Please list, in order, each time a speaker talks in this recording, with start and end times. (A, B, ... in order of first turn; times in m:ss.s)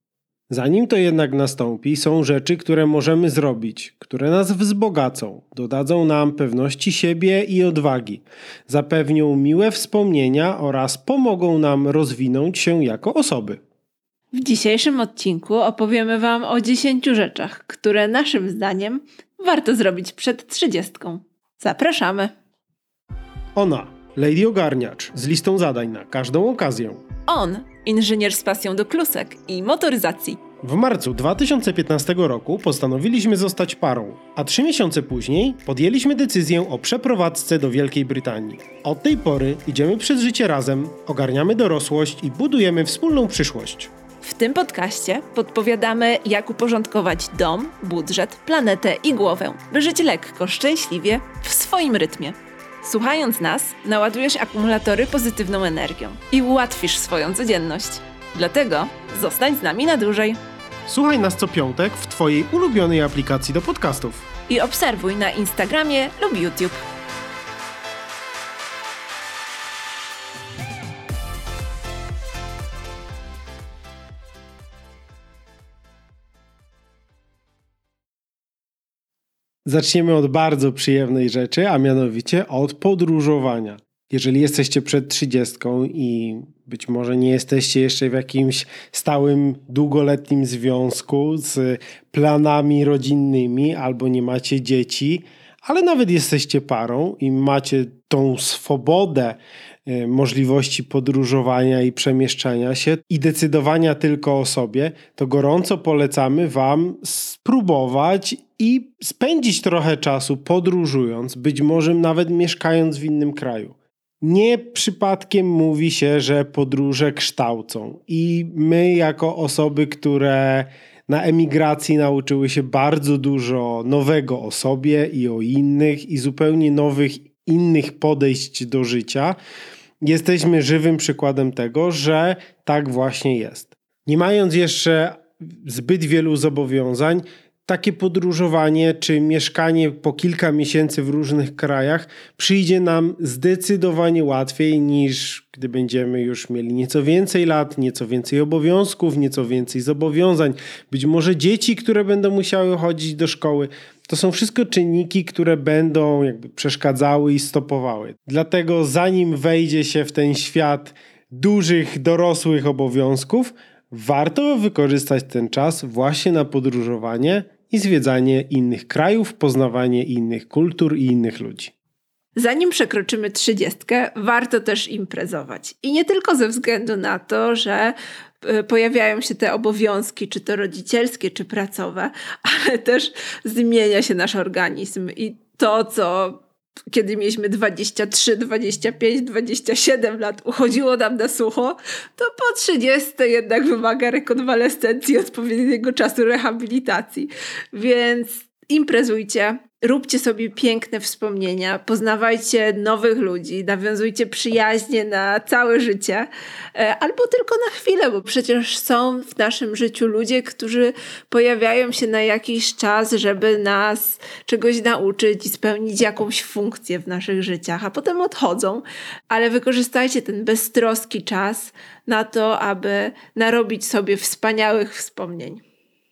0:00.5-0:13.6 A
0:14.3-0:22.3 B
0:23.6-0:27.0 A
0:27.3-0:30.4 B
0:30.6-0:43.9 A
0:44.2-1:00.4 B
1:00.9-1:04.3 A
1:04.5-1:06.8 B
1:19.7-2:09.4 A
2:10.0-2:51.7 A
2:52.4-3:45.6 B